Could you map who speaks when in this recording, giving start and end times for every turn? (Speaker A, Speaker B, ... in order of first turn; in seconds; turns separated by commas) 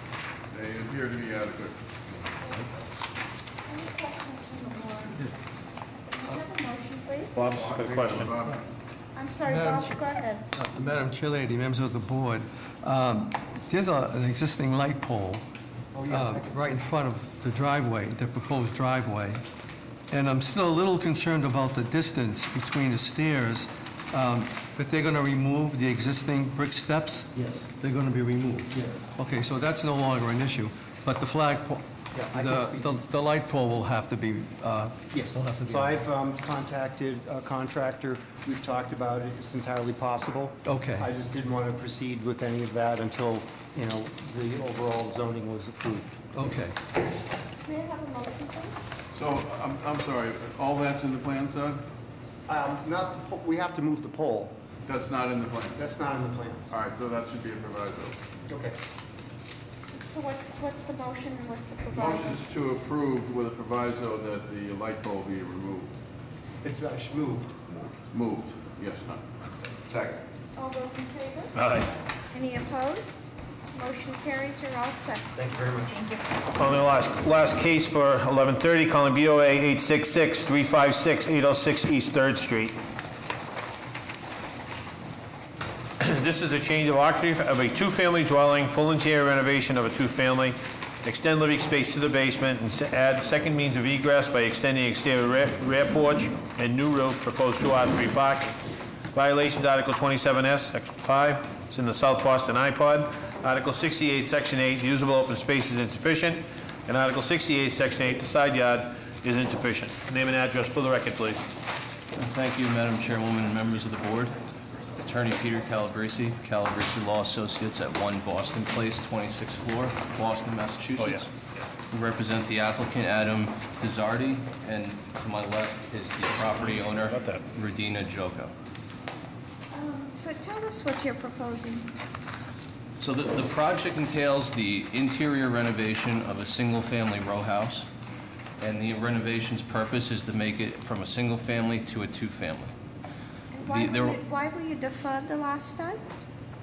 Speaker A: 0.5-1.8, Speaker B: 3.7-5.3, Speaker B: 6.1-7.5, Speaker C: 7.3-8.3, Speaker A: 7.5-8.7, Speaker B: 9.1-10.4, Speaker D: 9.4-10.0, Speaker D: 10.5-15.4, Speaker E: 15.9-16.7, Speaker D: 16.1-19.4, Speaker D: 20.1-36.0, Speaker E: 27.4-27.7, Speaker E: 28.7-29.0, Speaker E: 32.1-33.0, Speaker E: 35.1-46.2, Speaker D: 40.6-41.1, Speaker D: 46.3-46.7, Speaker B: 47.6-48.8, Speaker A: 49.1-51.8, Speaker E: 52.5-54.5, Speaker A: 54.9-55.9, Speaker E: 55.8-56.7, Speaker A: 56.7-58.2, Speaker E: 58.5-58.8, Speaker B: 59.9-62.4, Speaker A: 61.9-65.9, Speaker E: 66.6-67.6, Speaker A: 68.1-69.2, Speaker E: 69.9-70.2, Speaker B: 70.5-71.6, Speaker C: 71.5-71.9, Speaker B: 72.3-76.4, Speaker E: 75.3-75.9, Speaker C: 76.5-82.8, Speaker C: 86.0-98.5, Speaker C: 99.1-111.4, Speaker F: 112.2-114.3, Speaker F: 115.0-121.3, Speaker C: 121.0-121.2, Speaker F: 121.9-128.5, Speaker B: 129.7-131.9, Speaker F: 133.0-137.9, Speaker F: 138.6-142.7, Speaker B: 143.5-146.0, Speaker F: 143.7-144.2